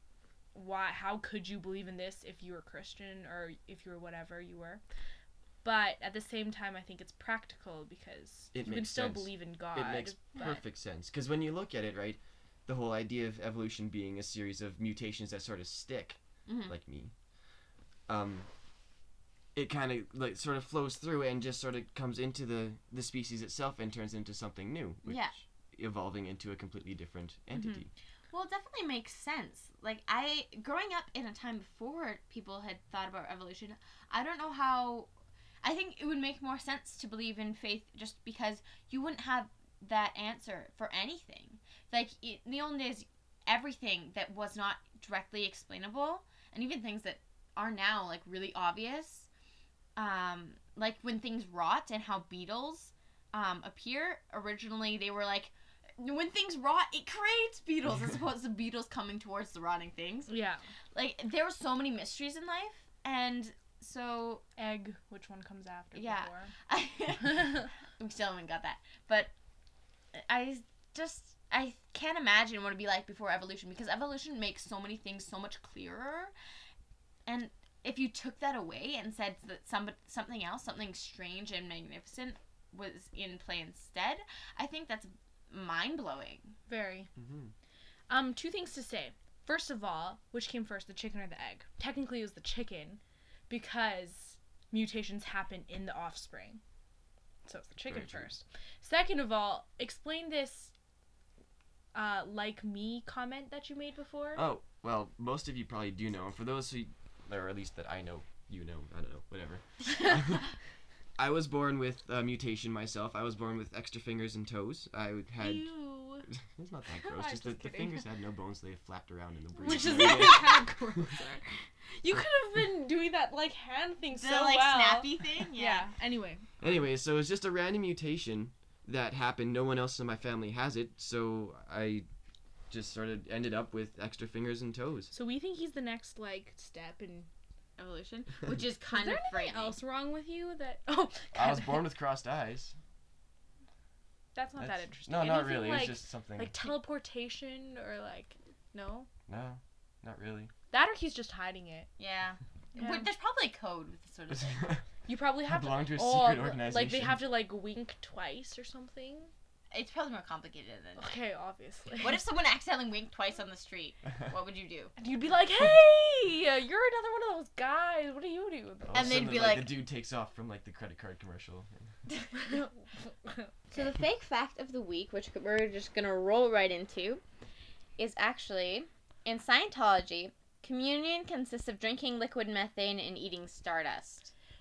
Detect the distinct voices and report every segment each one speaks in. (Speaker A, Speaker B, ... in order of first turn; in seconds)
Speaker A: 0.5-4.8, 5.6-10.6, 27.5-27.8, 60.3-60.6, 64.6-66.5, 86.7-87.1, 88.1-96.6, 97.5-100.7, 101.9-104.5, 115.4-116.3, 116.9-118.0, 119.6-126.5, 135.1-137.3, 138.9-141.9, 144.3-149.1, 150.7-151.9, 152.7-153.1, 155.1-159.3, 161.0-162.2, 165.0-169.3, 172.4-173.5
Speaker B: 8.5-17.1, 18.1-18.5, 19.6-27.9, 87.2-87.5, 97.8-98.3, 104.3-110.5, 111.2-120.7, 126.6-132.1, 132.7-135.1, 141.3-142.8, 144.6-146.7, 149.3-150.5, 155.4-157.2, 168.9-171.8
Speaker C: 16.5-16.8, 25.1-25.4, 28.3-35.1, 35.6-49.3, 50.0-60.3, 60.9-64.4, 65.9-69.3, 70.1-76.3, 77.3-86.5, 124.1-125.9, 137.8-139.8, 152.0-154.8, 159.7-161.1, 162.0-164.9, 168.9-169.8, 173.7-177.2, 178.0-184.3